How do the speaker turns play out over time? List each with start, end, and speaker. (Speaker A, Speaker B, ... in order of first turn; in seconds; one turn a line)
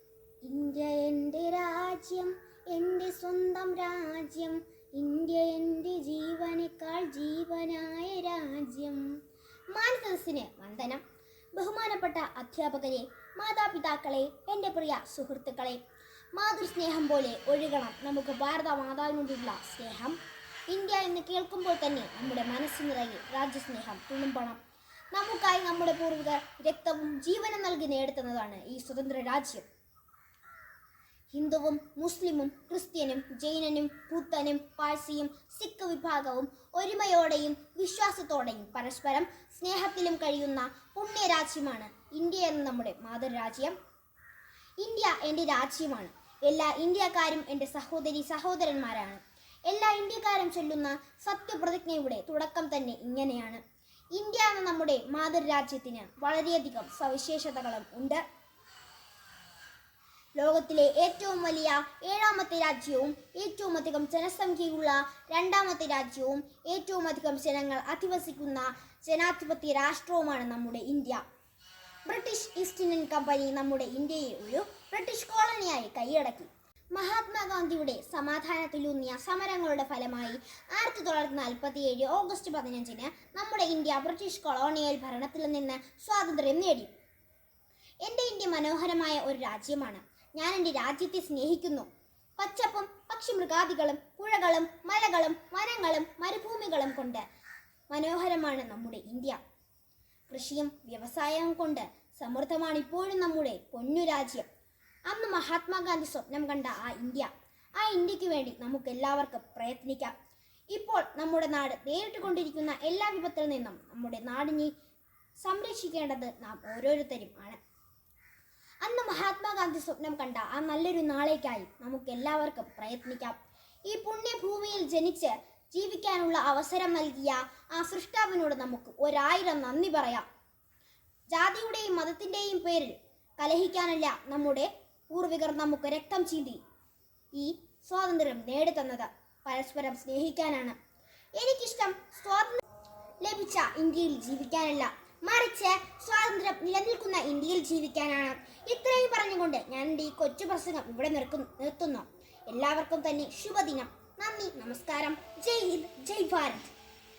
Speaker A: 0.5-9.1
Speaker A: 9.7-11.0
Speaker A: 11.5-15.8
Speaker A: 16.3-20.2
Speaker A: 20.7-24.6
Speaker A: 25.1-29.6
Speaker A: 31.3-43.8
Speaker A: 44.8-53.6
Speaker A: 54.1-58.2
Speaker A: 60.4-71.2
Speaker A: 72.1-86.9
Speaker A: 88.0-91.9
Speaker A: 92.4-97.2
Speaker A: 97.9-99.4
Speaker A: 100.3-104.5
Speaker A: 105.1-110.1
Speaker A: 110.7-114.7
Speaker A: 115.4-117.6
Speaker A: 118.8-130.2
Speaker A: 131.3-136.6
Speaker A: 137.3-140.8
Speaker A: 141.4-142.6
Speaker A: 143.2-156.7